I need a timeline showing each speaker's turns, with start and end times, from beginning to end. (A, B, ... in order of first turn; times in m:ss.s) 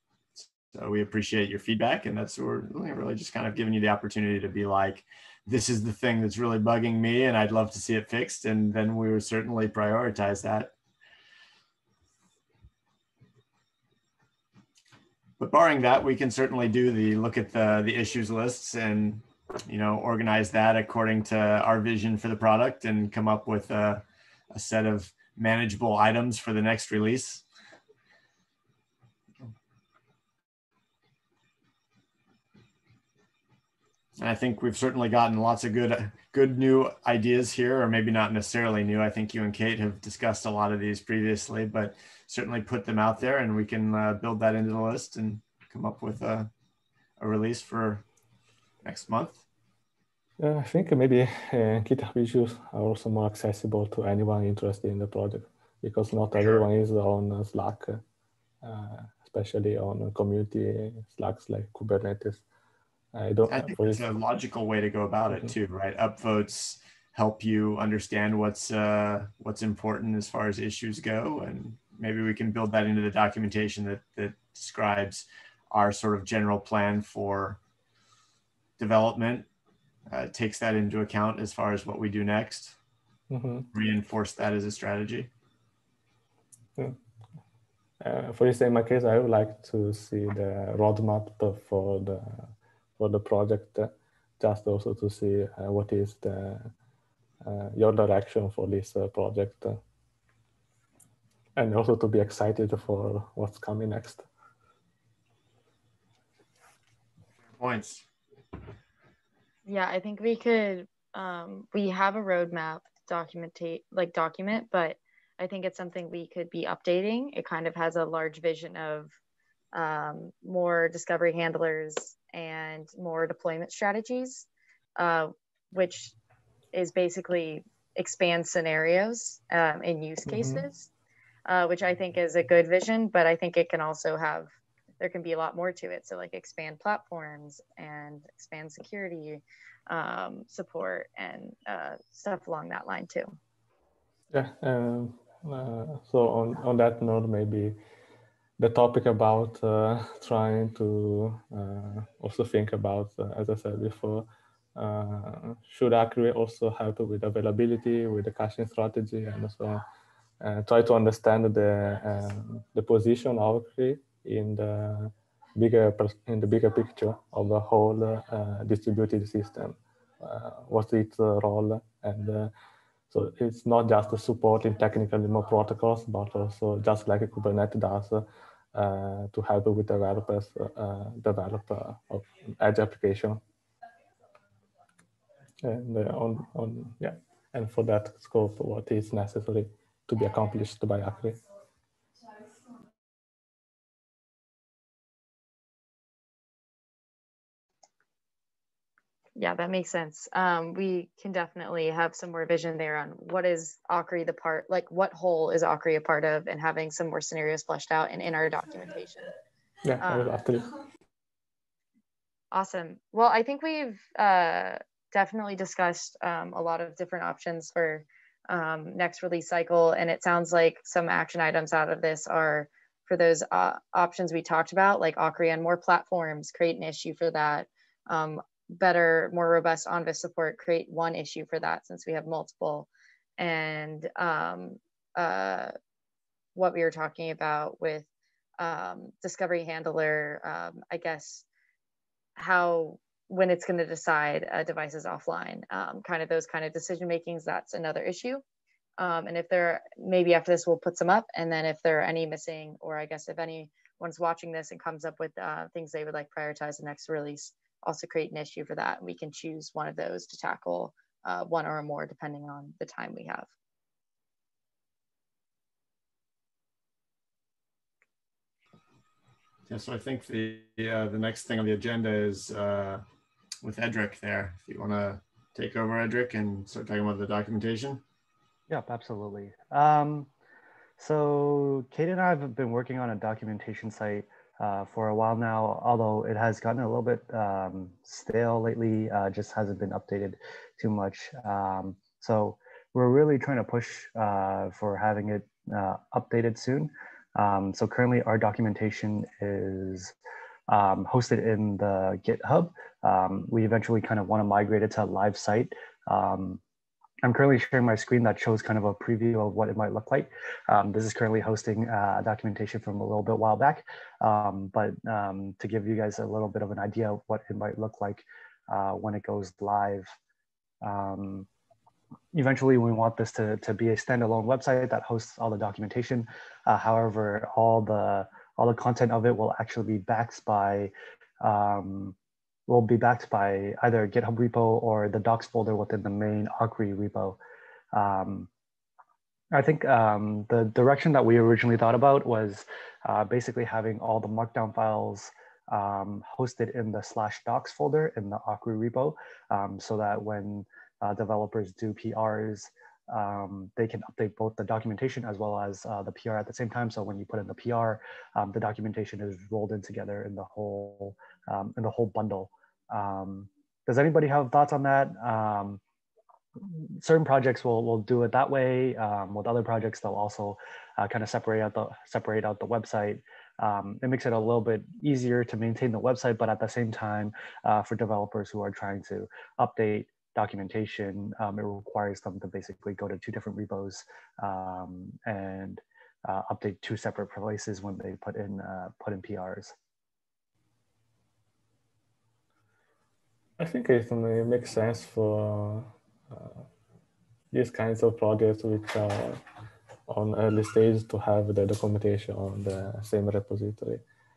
0:00.4-0:10.7 A
0:15.4-0:27.4 A
0:34.2-0:46.5 A
0:47.2-0:48.0 A
0:48.8-0:49.4 A
0:50.4-0:58.0 B
0:56.4-0:56.6 A
0:58.6-1:02.4 B
1:03.1-1:04.0 B
1:03.5-1:17.6 A
1:18.8-1:19.5 A
1:20.1-1:22.8 A
1:23.3-1:23.7 B
1:23.7-1:25.3 A
1:28.0-1:36.7 B
1:37.4-1:39.8 B
1:41.6-1:44.3 B
1:47.5-1:48.0 A
1:49.6-1:59.1 C
1:59.7-2:06.1 C
2:06.7-2:10.9 C
2:10.3-2:10.6 B
2:11.4-2:23.4 C
2:24.3-2:27.8 B
2:28.6-2:39.8 B
2:40.4-2:52.5 B
2:53.1-3:03.4 B
3:05.6-3:11.4 B
3:19.4-3:29.3 C
3:29.8-3:30.7 B
3:30.0-3:30.3 C
3:32.5-3:55.7 C
3:56.5-3:58.1 C
3:58.6-4:01.4 C
4:02.4-4:08.4 C
4:09.0-4:23.5 C
4:29.7-4:33.0 A
4:33.6-4:38.0 A
4:38.7-4:40.3 D
4:41.0-5:00.1 D
5:00.7-5:06.6 D
5:07.2-5:20.1 D
5:20.8-5:21.5 D
5:22.3-5:32.1 D
5:32.7-5:37.4 D
5:37.9-5:38.5 D
5:39.5-6:05.8 D
6:06.6-6:29.7 D
6:33.6-6:36.6 B
6:37.5-6:39.4 B
6:40.1-6:44.0 B